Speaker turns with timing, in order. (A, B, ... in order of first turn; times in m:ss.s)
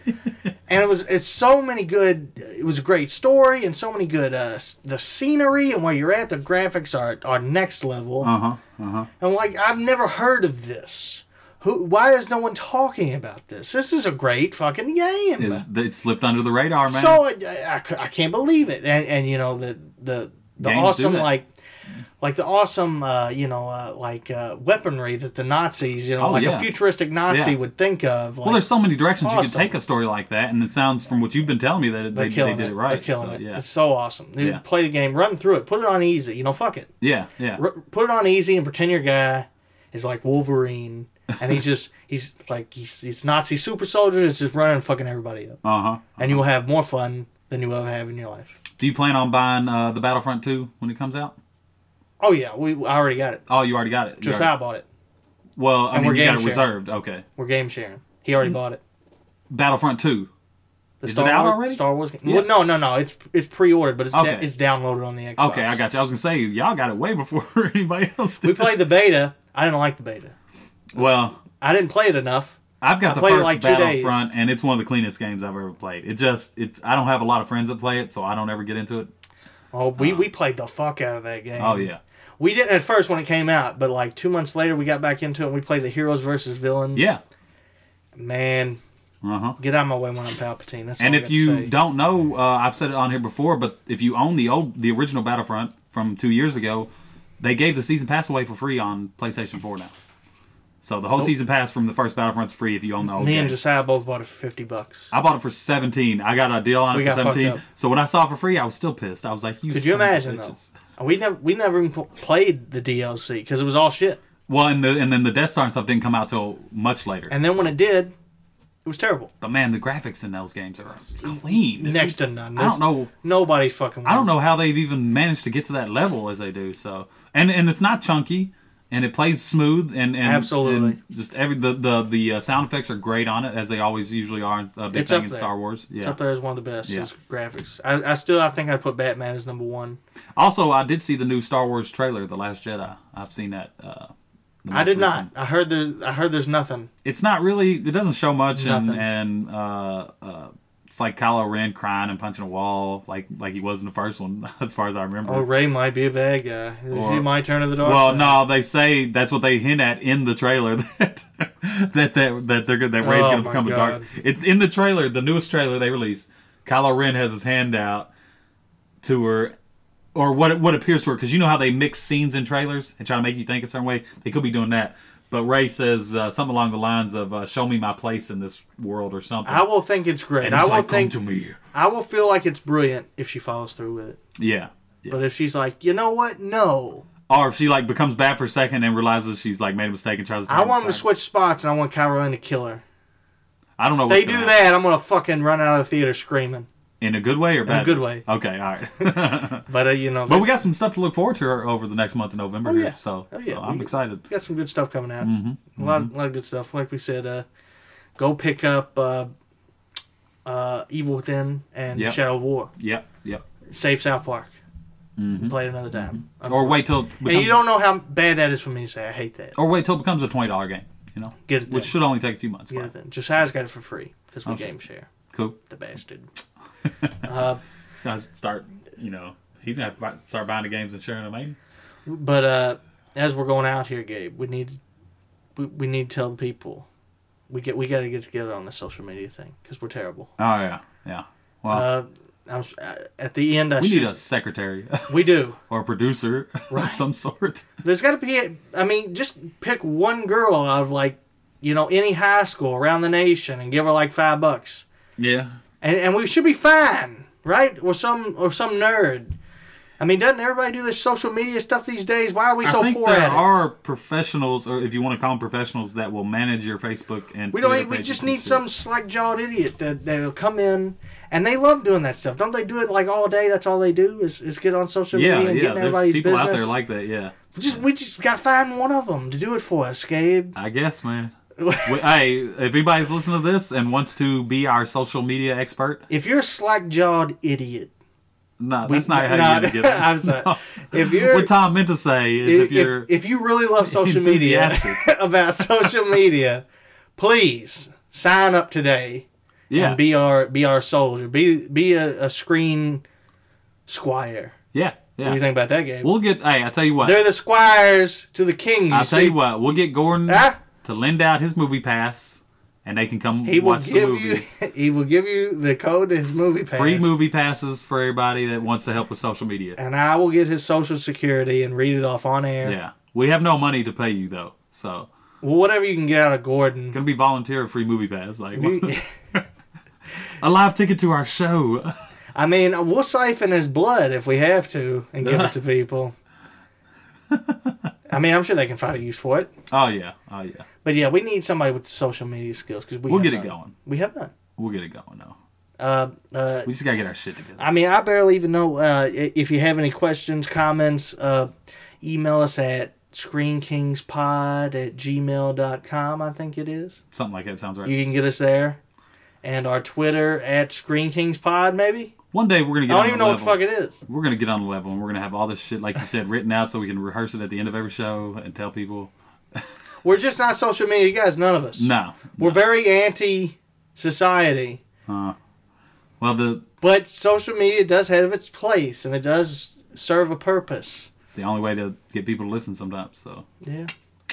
0:00.7-0:08.3 A
0:08.2-0:09.1 B
0:09.2-0:15.6 A
0:15.4-0:17.2 B
0:16.9-0:21.5 A
0:20.6-0:21.3 B
0:22.2-0:28.6 A
0:26.2-0:26.7 B
0:27.3-0:27.6 B
0:28.4-0:33.6 B
0:29.2-0:29.8 A
0:32.1-0:36.9 A
0:37.0-0:37.6 B
0:37.6-0:45.6 A
0:45.6-0:46.4 B
0:46.2-0:48.5 A
0:48.8-0:51.4 B
0:52.2-0:53.4 A
0:53.5-0:54.5 B
0:54.2-0:54.8 A
0:55.6-0:57.2 B
0:55.9-0:56.7 A
0:57.4-0:58.8 A
0:59.5-1:00.3 B
1:01.0-1:05.8 A
1:01.0-1:02.5 B
1:04.1-1:04.5 B
1:05.4-1:08.8 B
1:08.4-1:10.3 A
1:10.9-1:11.4 B
1:11.4-1:14.2 A
1:12.8-1:19.1 B
1:19.7-1:27.1 A
1:20.0-1:20.2 B
1:21.6-1:22.0 B
1:26.9-1:27.2 B
1:28.1-1:28.8 A
1:29.2-1:29.6 B
1:29.6-1:31.7 A
1:31.0-1:39.9 B
1:40.8-1:43.6 B
1:43.2-1:45.1 A
1:45.1-1:50.7 B
1:46.9-1:47.6 A
1:49.7-1:54.2 A
1:54.5-1:57.7 B
1:57.3-1:58.1 A
1:58.8-1:59.3 A
1:59.4-2:03.1 B
2:01.8-2:04.3 A
2:04.0-2:16.2 B
2:10.2-2:11.0 A
2:14.9-2:20.0 A
2:20.4-2:24.1 B
2:24.6-2:25.3 B
2:24.7-2:26.9 A
2:27.0-2:35.4 B
2:28.5-2:29.0 A
2:35.2-2:38.4 A
2:36.9-2:37.3 B
2:37.8-2:48.1 B
2:43.0-2:44.1 A
2:49.0-2:49.5 B
2:50.1-2:59.6 B
2:59.4-3:01.2 A
3:00.4-3:01.6 B
3:01.7-3:04.2 A
3:04.4-3:05.2 B
3:05.1-3:07.0 A
3:07.3-3:11.0 B
3:10.5-3:12.8 A
3:13.8-3:14.6 B
3:14.1-3:16.7 A
3:17.0-3:19.6 B
3:17.6-3:18.2 A
3:19.0-3:20.5 A
3:20.3-3:24.2 B
3:22.6-3:27.4 A
3:25.2-3:26.1 B
3:28.2-3:29.3 A
3:30.4-3:32.7 A
3:31.9-3:32.2 B
3:32.8-3:33.4 B
3:33.7-3:34.5 A
3:35.2-3:35.6 B
3:35.4-3:39.6 A
3:36.1-3:37.6 B
3:39.6-3:43.4 B
3:41.4-3:41.9 A
3:42.7-3:45.1 A
3:44.4-3:44.7 B
3:45.3-3:45.6 B
3:45.6-3:46.3 A
3:47.2-3:47.6 A
3:47.9-3:51.6 B
3:52.1-3:54.8 A
3:55.6-3:56.8 A
3:57.5-4:00.3 A
4:00.4-4:01.9 B
4:01.7-4:04.1 A
4:03.8-4:07.7 B
4:05.1-4:05.6 A
4:06.7-4:07.0 A
4:07.8-4:14.8 A
4:15.2-4:15.6 B
4:15.8-4:19.3 A
4:20.0-4:23.4 A
4:22.6-4:28.6 B
4:27.5-4:36.7 A
4:35.1-4:37.8 B
4:37.5-4:40.5 A
4:40.5-4:46.0 B
4:41.6-4:42.0 A
4:46.1-4:47.9 A
4:48.6-4:53.1 B
4:48.8-4:51.5 A
4:52.4-4:56.6 A
4:53.8-4:55.1 B
4:57.2-5:03.0 A
4:59.7-5:00.0 B
5:03.9-5:04.5 A
5:04.7-5:05.4 B
5:05.2-5:06.1 A
5:06.0-5:07.2 B
5:07.0-5:09.4 A
5:08.9-5:14.5 B
5:10.3-5:10.6 A
5:13.4-5:17.1 A
5:16.7-5:19.8 B
5:19.8-5:22.8 A
5:22.6-5:25.1 B
5:25.4-5:27.0 A
5:26.9-5:29.4 B
5:28.5-5:29.1 A
5:30.4-5:32.0 B
5:32.3-5:36.1 A
5:35.2-5:35.5 B
5:37.3-5:37.9 B
5:38.1-5:39.5 A
5:39.7-5:40.6 B
5:40.8-5:44.3 A
5:43.1-5:43.7 B
5:44.6-5:45.4 B
5:45.8-5:46.7 A
5:46.6-5:47.7 B
5:47.6-5:51.5 A
5:52.0-5:57.0 A
5:57.1-5:57.9 B
5:57.8-5:58.8 A
5:59.4-6:02.1 A
6:02.3-6:09.6 B
6:02.9-6:03.9 A
6:10.0-6:14.8 A
6:11.8-6:12.6 B
6:15.1-6:15.4 B
6:16.2-6:16.6 B
6:16.8-6:21.1 A
6:21.3-6:23.4 B
6:23.6-6:23.9 A